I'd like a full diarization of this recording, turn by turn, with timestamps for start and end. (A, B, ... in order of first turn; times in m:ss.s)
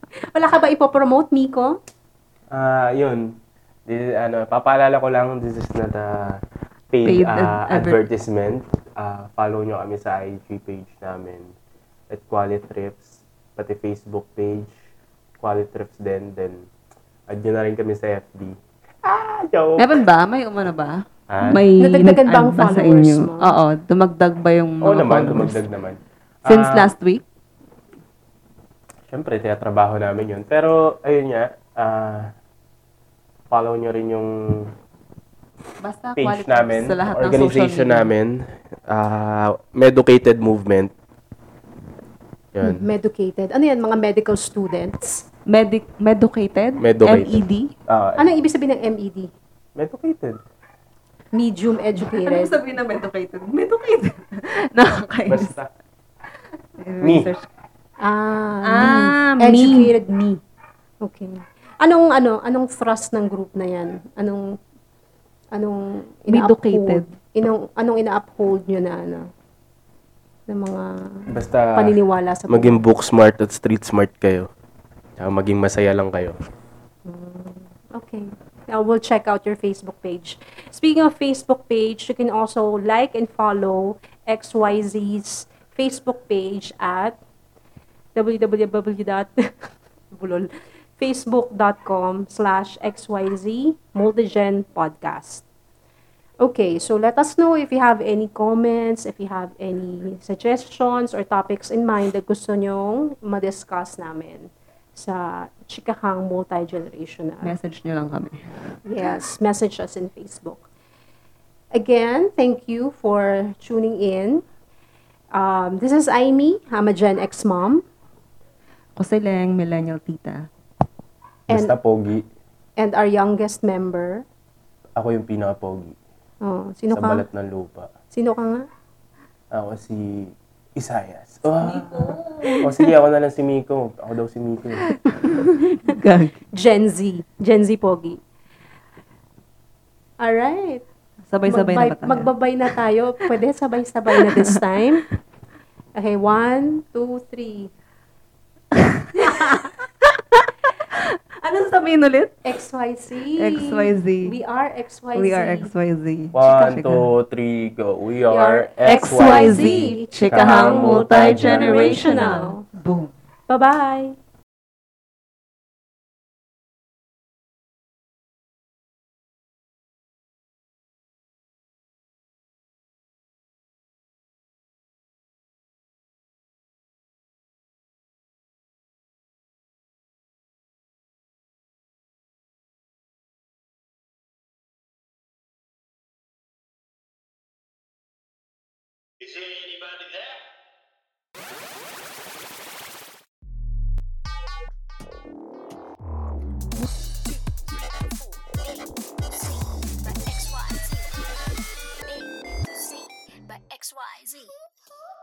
0:00.2-0:01.8 A
0:02.5-0:06.4 B
0:06.9-0:11.5 B
0:07.0-0:08.0 C
0:12.1-0:14.7 B
0:15.4-0:16.6 B
0:17.3-0:19.9 B
0:19.8-0:25.6 C
0:21.3-0:21.6 B
0:21.8-0:23.5 A
0:24.8-0:26.9 B
0:26.4-0:27.2 C
0:29.1-0:32.3 B
0:33.5-0:34.7 B
0:35.8-0:38.1 C
0:36.2-0:40.9 B
0:42.5-0:42.8 B
0:42.6-0:45.3 A
0:45.5-0:47.7 C
0:46.8-0:48.2 B
0:48.2-0:49.3 A
0:49.8-0:50.4 B
0:51.3-0:52.6 A
0:52.0-0:55.5 C
0:55.3-0:55.7 B
0:56.8-0:57.5 C
0:57.0-0:57.3 B
0:58.0-1:00.4 A
0:58.6-0:59.9 C
1:01.0-1:04.6 A
1:05.5-1:09.3 A
1:06.3-1:07.1 C
1:10.5-1:12.8 A
1:11.3-1:14.5 B
1:15.2-1:16.4 B
1:17.0-1:27.2 A
1:28.1-1:35.4 A
1:36.4-1:47.5 A
1:47.4-1:48.8 C
1:48.8-1:50.7 A
1:51.7-1:54.4 A
1:55.3-1:57.8 A
1:59.0-2:00.5 C
2:01.5-2:02.2 B
2:02.8-2:04.2 A
2:05.0-2:06.0 B
2:06.4-2:07.2 A
2:06.9-2:07.9 B
2:08.1-2:08.7 A
2:09.5-2:14.9 B
2:11.6-2:12.9 C
2:14.9-2:16.4 C
2:16.5-2:18.2 A
2:20.2-2:20.8 A
2:21.3-2:22.3 C
2:21.5-2:25.0 A
2:26.0-2:27.7 A
2:28.7-2:32.4 C
2:32.4-2:35.7 A
2:33.4-2:34.4 C
2:35.1-2:37.1 C
2:36.3-2:42.3 B
2:38.3-2:42.6 A
2:38.8-2:43.1 C
2:43.5-2:44.2 A
3:17.3-3:21.5 D
3:22.0-3:24.5 D